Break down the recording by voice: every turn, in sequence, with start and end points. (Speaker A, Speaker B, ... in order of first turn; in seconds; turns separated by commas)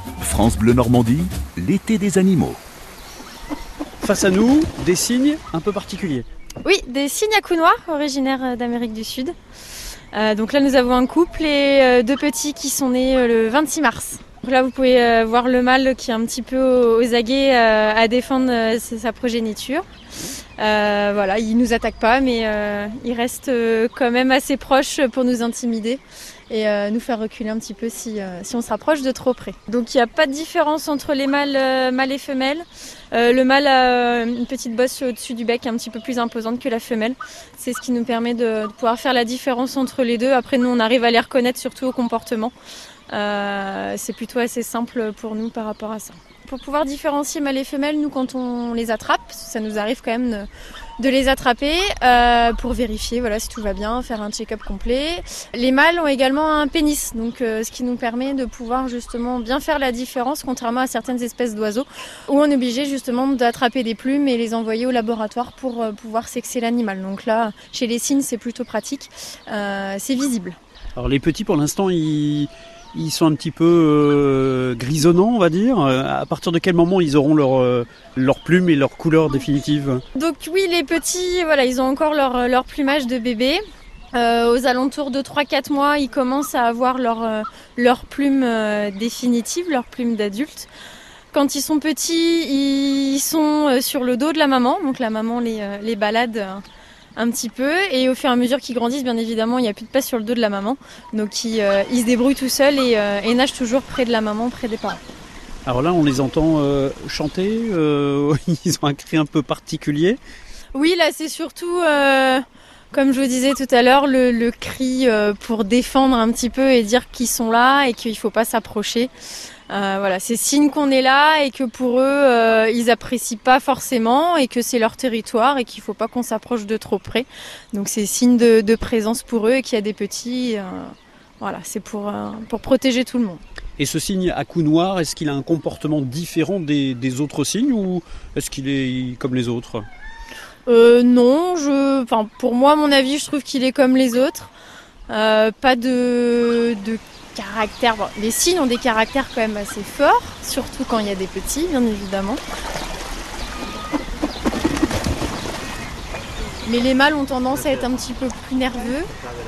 Speaker A: 0.2-2.6, Speaker B: 4.0-6.3, Speaker C: 6.6-9.3, Speaker C: 10.1-19.9, Speaker C: 20.6-42.5, Speaker C: 43.1-50.5, Speaker C: 51.0-70.6, Speaker B: 71.0-80.0, Speaker C: 80.1-83.6, Speaker C: 84.1-90.7, Speaker C: 91.3-96.6, Speaker C: 97.2-105.0, Speaker B: 105.7-110.2, Speaker C: 110.7-119.1, Speaker C: 119.7-133.4, Speaker B: 133.8-139.9, Speaker C: 140.7-144.5, Speaker C: 145.1-152.4, Speaker C: 156.6-159.1